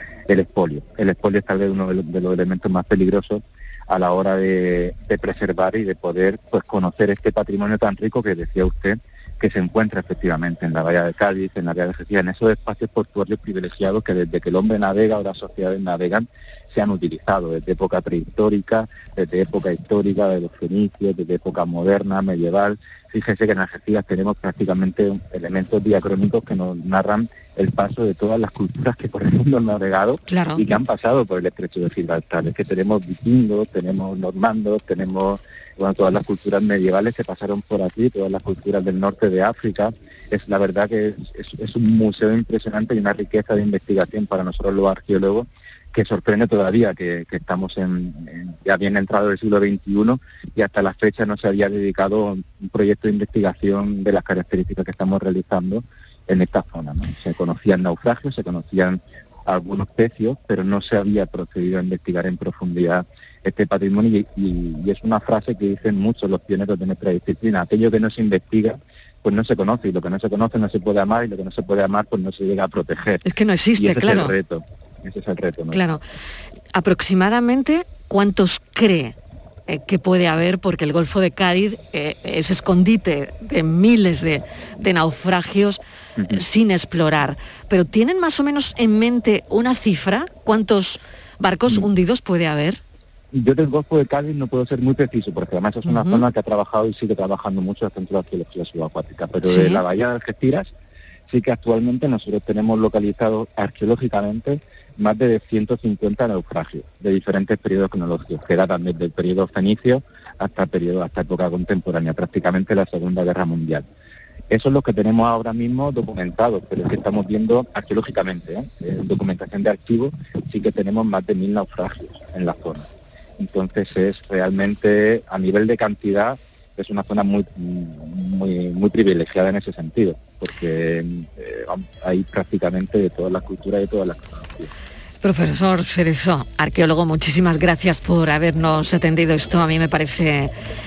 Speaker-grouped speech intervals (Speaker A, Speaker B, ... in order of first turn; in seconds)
Speaker A: 0.3-73.2, 73.8-75.9, 93.3-100.7, 101.3-113.8, 114.5-122.9, 123.4-134.7
Speaker B: 30.3-30.6, 73.2-74.3, 75.7-76.0, 76.7-79.2, 79.7-92.8, 95.8-96.2, 99.5-99.8, 135.2-140.5